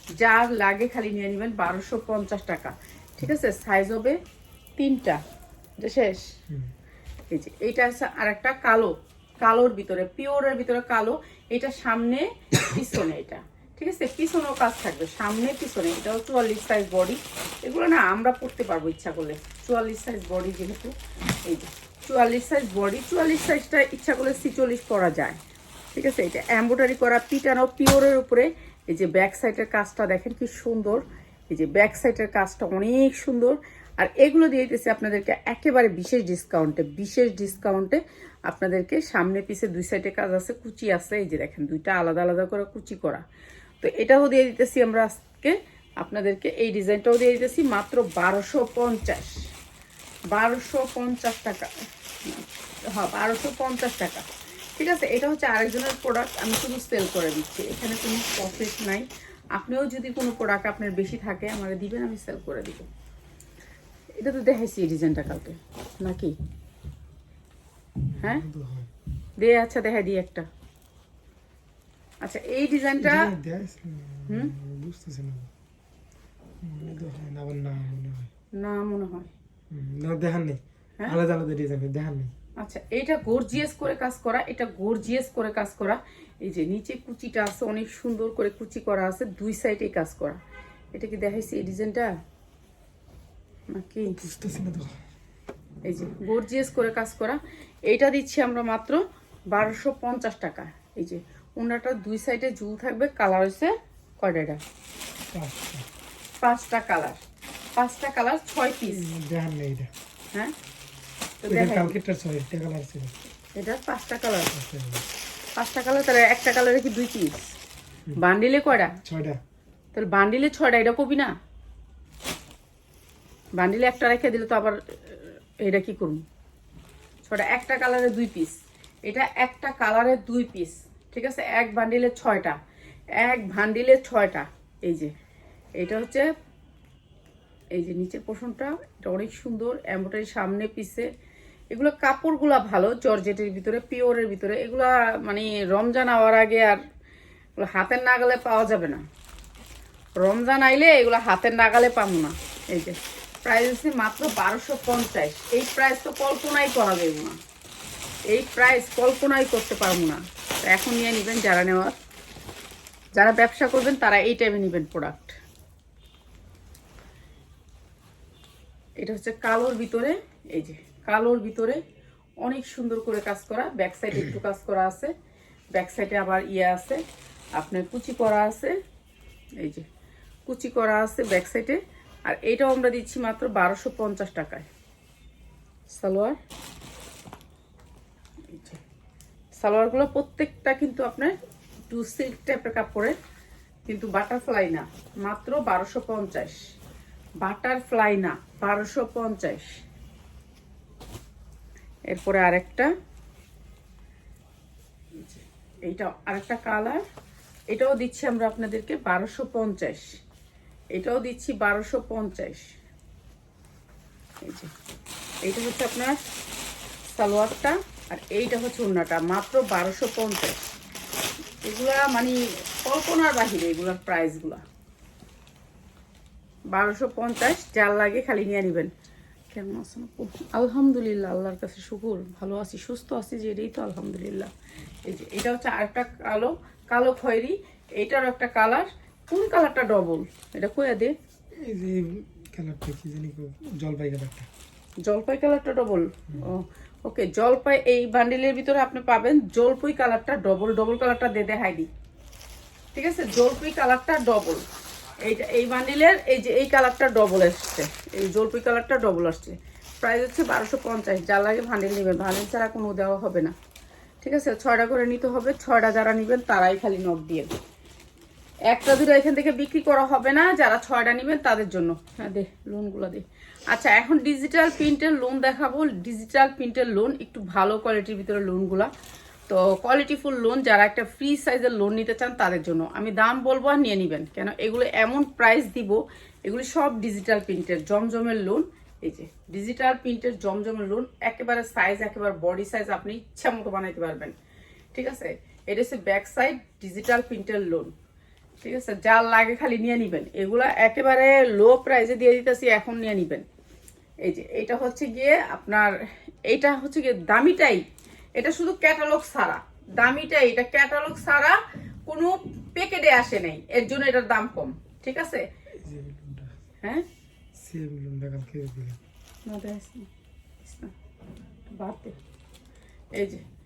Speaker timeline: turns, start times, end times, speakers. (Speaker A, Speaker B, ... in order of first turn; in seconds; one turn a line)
Speaker A: 0.2-4.2
Speaker A: 4.8-5.2
Speaker A: 5.8-6.2
Speaker A: 7.3-20.9
Speaker A: 21.4-25.4
Speaker A: 25.9-43.2
Speaker A: 43.8-49.3
Speaker A: 50.3-51.7
Speaker A: 52.2-54.2
Speaker A: 54.8-62.9
Speaker A: 64.2-66.3
Speaker B: 68.1-68.9
Speaker A: 69.4-70.5
Speaker A: 72.2-73.3
Speaker B: 73.0-75.5
Speaker B: 76.6-78.3
Speaker A: 78.6-79.3
Speaker B: 79.7-82.3
Speaker A: 82.6-90.4
Speaker A: 90.9-92.1
Speaker A: 93.7-94.2
Speaker B: 94.1-95.0
Speaker A: 95.8-104.6
Speaker B: 105.3-105.9
Speaker A: 106.4-107.2
Speaker A: 107.8-109.0
Speaker B: 108.8-109.9
Speaker A: 111.4-111.9
Speaker B: 111.5-113.2
Speaker A: 113.5-114.5
Speaker B: 114.5-115.1
Speaker A: 115.6-117.5
Speaker A: 118.2-119.0
Speaker B: 119.0-119.4
Speaker A: 119.9-121.3
Speaker A: 123.6-126.2
Speaker A: 127.3-128.5
Speaker A: 129.1-132.6
Speaker A: 133.2-135.1
Speaker A: 135.8-136.3
Speaker A: 137.7-141.1
Speaker A: 141.7-146.8
Speaker A: 147.6-149.0
Speaker A: 150.2-157.4
Speaker A: 158.3-161.9
Speaker A: 163.2-165.4
Speaker A: 169.0-171.8
Speaker A: 172.4-175.1
Speaker A: 175.7-177.0
Speaker A: 177.6-178.8
Speaker A: 179.6-179.8
Speaker A: 180.5-184.7
Speaker A: 185.9-186.4
Speaker A: 188.5-188.8
Speaker A: 189.6-191.3
Speaker A: 191.9-193.1
Speaker A: 193.9-196.6
Speaker A: 197.4-199.7
Speaker A: 202.1-202.9
Speaker A: 205.2-207.0
Speaker A: 207.7-210.1
Speaker A: 210.9-212.6
Speaker A: 214.4-214.7
Speaker A: 215.4-216.2
Speaker A: 217.2-220.6
Speaker A: 221.6-224.6
Speaker A: 226.7-228.9
Speaker A: 229.5-234.5
Speaker A: 235.0-241.1
Speaker B: 241.6-244.5
Speaker A: 245.0-251.9
Speaker A: 252.9-254.6
Speaker A: 255.2-263.5
Speaker A: 264.2-267.5
Speaker A: 268.7-278.9
Speaker A: 279.5-294.3
Speaker A: 294.9-297.9
Speaker A: 298.6-303.4
Speaker A: 304.2-305.9
Speaker A: 306.5-307.8
Speaker A: 308.4-315.4
Speaker B: 315.8-316.5
Speaker B: 317.6-319.0
Speaker A: 319.5-320.1
Speaker A: 320.6-320.9
Speaker A: 321.7-322.2
Speaker A: 323.1-323.4